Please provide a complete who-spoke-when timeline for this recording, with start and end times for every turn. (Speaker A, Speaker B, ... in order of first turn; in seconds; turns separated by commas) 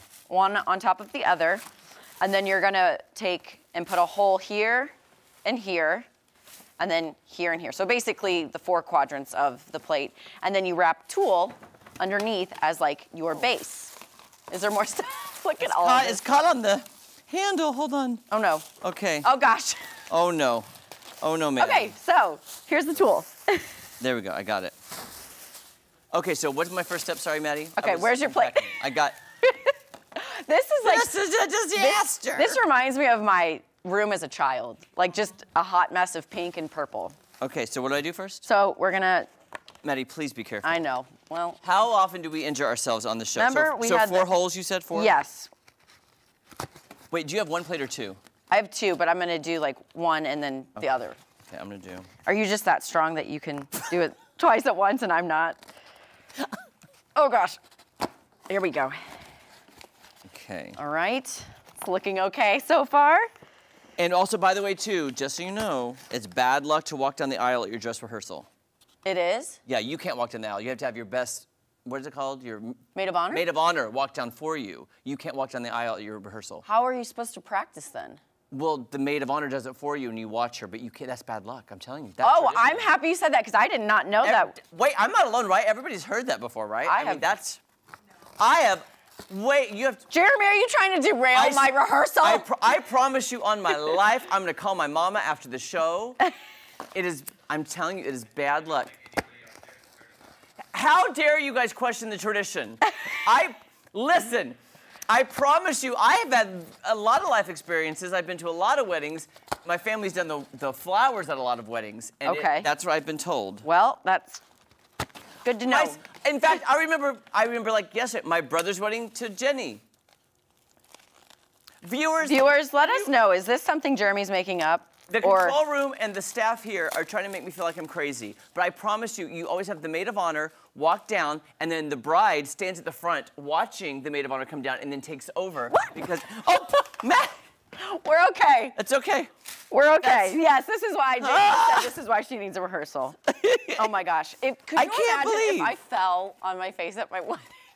Speaker A: 0.3-1.6, Speaker A: 2.2-4.9, Speaker A: 5.4-6.1, Speaker A: 6.8-13.9, Speaker A: 14.5-16.2, Speaker B: 15.6-18.2, Speaker A: 18.3-18.7, Speaker B: 18.8-19.3, Speaker A: 19.2-19.8, Speaker B: 20.1-20.7, Speaker B: 21.2-21.9, Speaker A: 21.6-23.7, Speaker B: 24.0-24.7, Speaker B: 26.1-29.1, Speaker A: 27.8-28.9, Speaker A: 29.4-31.1, Speaker B: 30.8-32.6, Speaker A: 31.7-37.1, Speaker B: 37.4-38.5, Speaker A: 38.4-39.3, Speaker B: 39.8-40.7, Speaker A: 40.6-41.6, Speaker B: 41.6-45.1, Speaker A: 43.4-44.3, Speaker A: 44.9-45.5, Speaker B: 47.1-48.2, Speaker A: 48.5-51.2, Speaker B: 51.5-52.1, Speaker A: 52.2-55.6, Speaker A: 57.1-57.6, Speaker A: 58.5-59.1, Speaker B: 60.3-60.8, Speaker A: 60.8-63.3, Speaker B: 64.0-68.5, Speaker A: 69.0-69.6, Speaker B: 69.7-72.8, Speaker A: 72.9-73.4, Speaker B: 73.3-76.6, Speaker A: 76.6-78.2, Speaker B: 78.5-82.9, Speaker A: 82.2-84.5, Speaker B: 84.2-87.6, Speaker A: 86.8-87.4, Speaker B: 88.4-90.0, Speaker A: 90.1-92.5, Speaker B: 91.3-96.2, Speaker B: 96.9-99.0, Speaker B: 100.7-104.6, Speaker B: 105.1-113.7, Speaker A: 112.2-112.7, Speaker A: 113.6-114.4, Speaker A: 115.4-116.0, Speaker B: 115.7-119.8, Speaker B: 121.8-123.1, Speaker A: 122.2-125.6, Speaker B: 125.1-137.3, Speaker A: 137.7-138.8, Speaker B: 138.8-139.3, Speaker A: 139.7-143.2, Speaker B: 140.0-140.4, Speaker B: 141.2-141.9, Speaker B: 143.3-143.9, Speaker A: 143.8-147.5, Speaker B: 144.8-145.7